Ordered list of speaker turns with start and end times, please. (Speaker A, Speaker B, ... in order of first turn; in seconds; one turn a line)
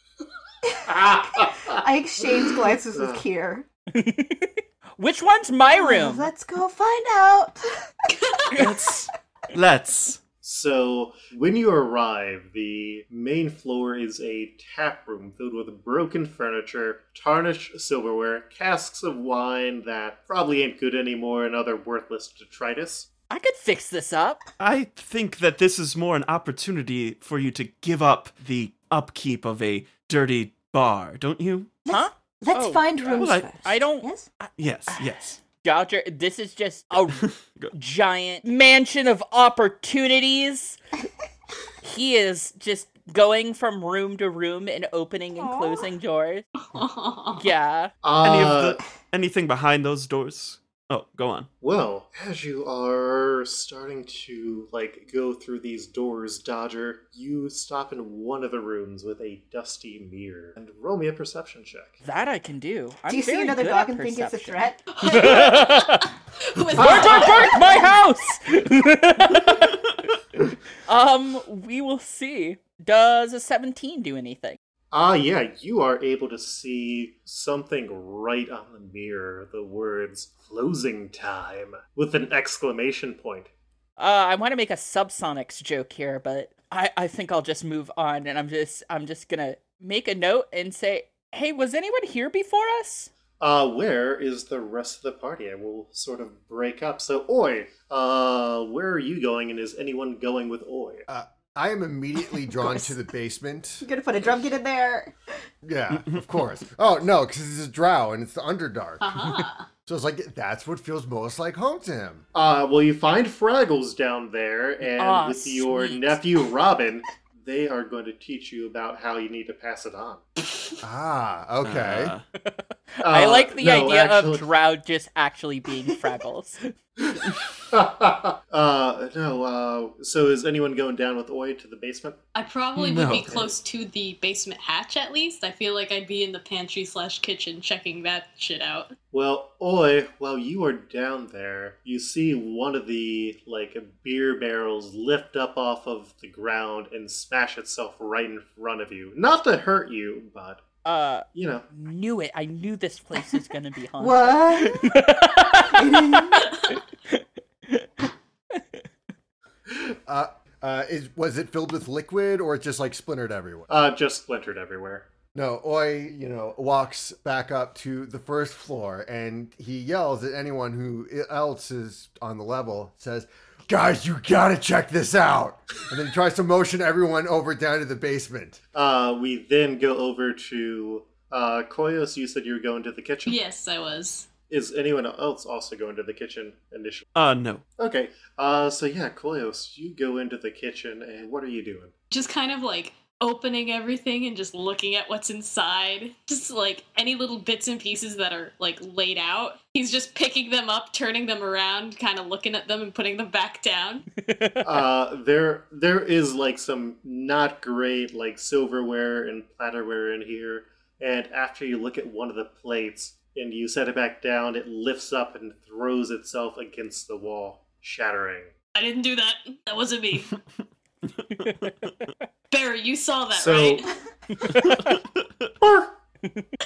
Speaker A: 0.6-3.6
Speaker B: 0.9-1.8
Speaker B: 2.9-3.2
Speaker C: 3.9-6.3
Speaker A: 5.7-7.9
Speaker D: 8.1-8.5
Speaker E: 8.5-10.2
Speaker B: 10.4-23.1
Speaker C: 23.3-24.4
Speaker E: 24.6-31.8
Speaker A: 31.8-34.3
Speaker C: 31.9-40.8
Speaker E: 33.1-33.5
Speaker E: 34.6-35.4
Speaker E: 37.1-37.7
Speaker C: 41.8-46.5
Speaker A: 45.4-45.9
Speaker D: 46.6-47.5
Speaker C: 47.3-47.9
Speaker B: 48.0-48.8
Speaker E: 48.2-51.5
Speaker B: 51.6-62.0
Speaker C: 62.0-66.1
Speaker A: 63.1-64.9
Speaker D: 65.0-68.0
Speaker C: 66.8-69.7
Speaker B: 66.8-67.5
Speaker E: 69.3-69.9
Speaker C: 70.9-74.6
Speaker B: 74.9-83.5
Speaker C: 84.0-93.1
Speaker B: 93.4-101.0
Speaker F: 101.1-103.8
Speaker A: 102.3-102.9
Speaker A: 103.8-105.1
Speaker F: 105.6-109.2
Speaker D: 109.0-109.7
Speaker F: 109.8-112.2
Speaker B: 112.3-120.2
Speaker C: 115.0-116.2
Speaker F: 120.8-122.1
Speaker E: 121.6-122.2
Speaker C: 122.4-126.6
Speaker B: 123.0-124.5
Speaker B: 127.1-132.2
Speaker D: 132.3-138.9
Speaker E: 132.7-133.4
Speaker B: 133.1-133.5
Speaker B: 139.1-150.6
Speaker C: 150.8-158.8
Speaker B: 151.3-151.7
Speaker A: 154.0-155.0
Speaker A: 155.5-156.5
Speaker F: 160.1-163.7
Speaker B: 163.7-165.1
Speaker F: 165.3-178.6
Speaker B: 178.7-183.4
Speaker D: 183.2-184.3
Speaker B: 184.5-187.1
Speaker E: 187.1-187.6
Speaker B: 187.8-191.9
Speaker D: 192.1-204.1
Speaker C: 204.2-204.7
Speaker B: 204.6-218.5
Speaker D: 218.7-220.4
Speaker E: 221.1-221.9
Speaker C: 221.4-222.1
Speaker D: 222.5-223.9
Speaker B: 223.3-223.9
Speaker C: 224.3-225.0
Speaker E: 224.4-225.5
Speaker B: 225.6-225.9
Speaker C: 226.2-226.5